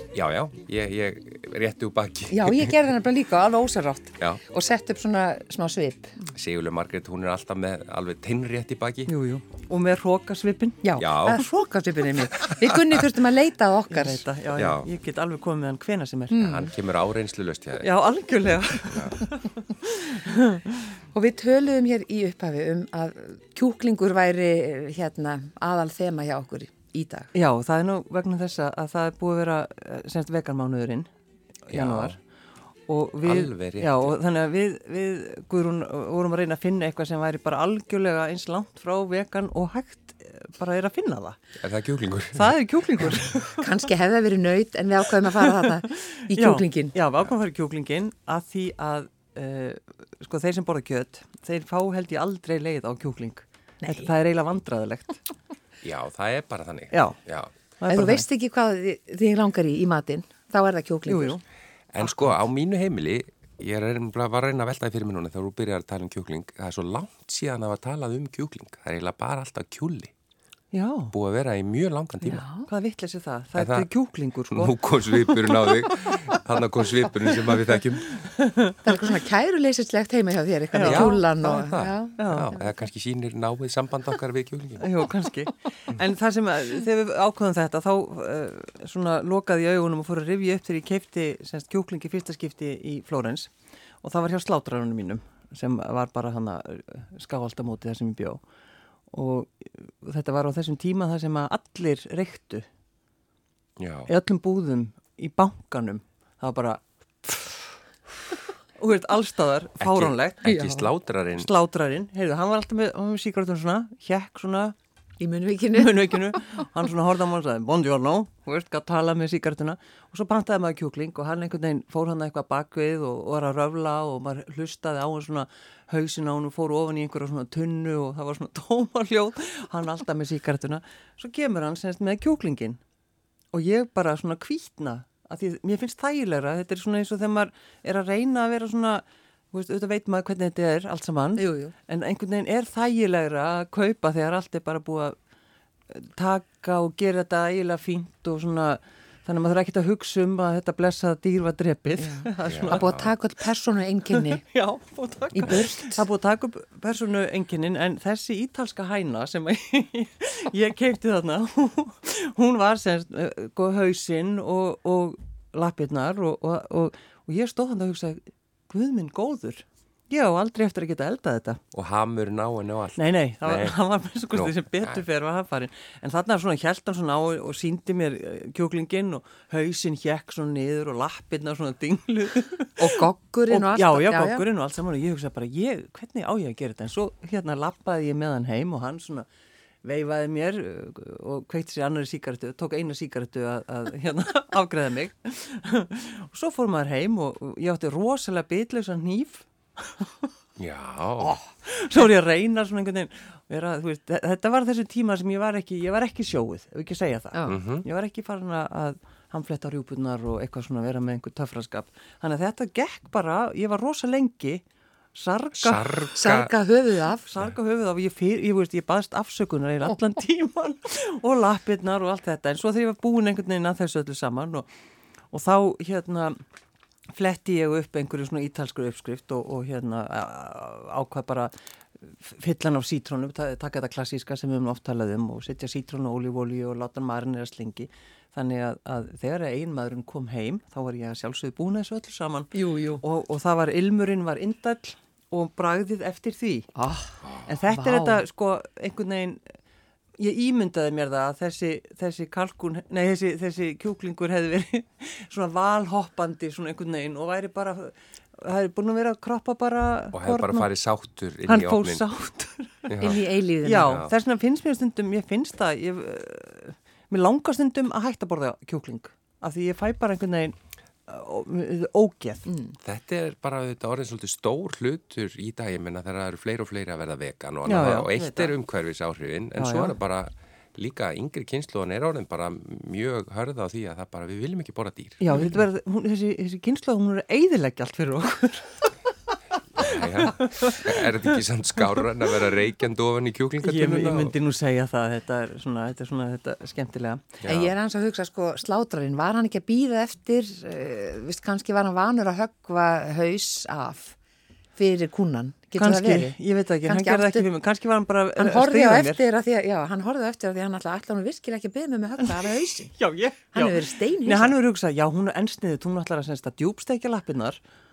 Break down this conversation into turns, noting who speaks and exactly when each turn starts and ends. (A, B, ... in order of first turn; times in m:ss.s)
0:00.1-0:02.8 A
0:02.3-0:06.2 B
0:06.3-0:09.1 A
0:09.1-0:10.8 C
0:10.8-0:14.2 B
0:11.0-0:11.4 A
0:12.5-0:12.9 A
0:13.9-0:16.5 C
0:14.5-0:14.9 A
0:16.3-0:16.7 B
0:16.4-0:17.9 A
0:17.8-0:20.8 C
0:21.1-0:27.3 B
0:27.3-0:31.1 C
0:31.7-0:32.2 C
0:31.7-0:32.2 A
0:32.9-0:41.4 C
0:33.2-0:34.2 A
0:41.6-0:42.6 A
0:42.3-0:43.7 C
0:43.6-0:47.0 B
0:45.9-0:55.2 C
0:53.8-0:54.1 B
0:55.8-0:57.5 A
0:56.9-0:57.2 C
0:57.8-0:58.3 C
0:57.9-1:01.4 B
1:01.1-1:01.4 C
1:01.9-1:10.1 A
1:10.7-1:11.1 C
1:11.1-1:12.4 A
1:12.2-1:12.7 B
1:12.7-1:15.8 C
1:13.6-1:13.9 A
1:14.5-1:18.2 A
1:18.1-1:18.8 C
1:18.8-1:22.7 B
1:20.7-1:21.2 C
1:20.8-1:24.9 A
1:22.2-1:22.5 C
1:24.8-1:33.5 C
1:34.0-1:38.4 C
1:39.1-1:42.7 C
1:43.8-1:44.1 A
1:44.1-1:47.6 C
1:48.8-1:50.5 C
1:49.8-1:51.5 A
1:50.4-1:50.9 B
1:51.4-1:54.8 C
1:55.2-1:56.4 B
1:55.7-2:12.8 C
2:13.5-2:25.2 C
2:21.4-2:21.8 B
2:25.9-2:33.1 C
2:32.0-2:34.4 B
2:32.4-2:33.1 A
2:34.1-2:51.6 C
2:35.3-2:36.1 B
2:51.7-2:53.8 A
2:53.0-3:09.3 C
2:54.3-2:55.0 A
3:02.8-3:04.4 B
3:09.8-3:20.3 C
3:20.6-3:21.4 A
3:21.6-3:34.6 C
3:27.5-3:27.9 A
3:35.2-3:36.1 C
3:35.6-3:36.5 A
3:36.2-3:37.3 B
3:37.2-3:44.7 C
3:45.3-3:46.4 C
3:47.2-4:06.7 C
4:02.5-4:03.0 B
4:06.8-4:08.2 B
4:07.5-4:09.5 C
4:10.2-4:20.7 C
4:20.1-4:22.0 A
4:21.4-4:30.6 C
4:22.9-4:24.1 A
4:23.0-4:24.0 B
4:31.1-4:32.5 C
4:32.5-4:32.8 B
4:32.8-4:45.6 A
4:37.6-4:38.6 C
4:39.6-4:40.0 C
4:45.2-4:48.9 C
4:49.7-4:54.4 A
4:49.8-4:51.1 C
4:53.6-4:57.4 C
4:57.4-4:57.7 A
4:57.4-5:04.2 B
5:04.8-5:07.5 B
5:05.8-5:09.2 C
5:08.4-5:13.0 B
5:12.9-5:17.6 C
5:13.5-5:14.6 B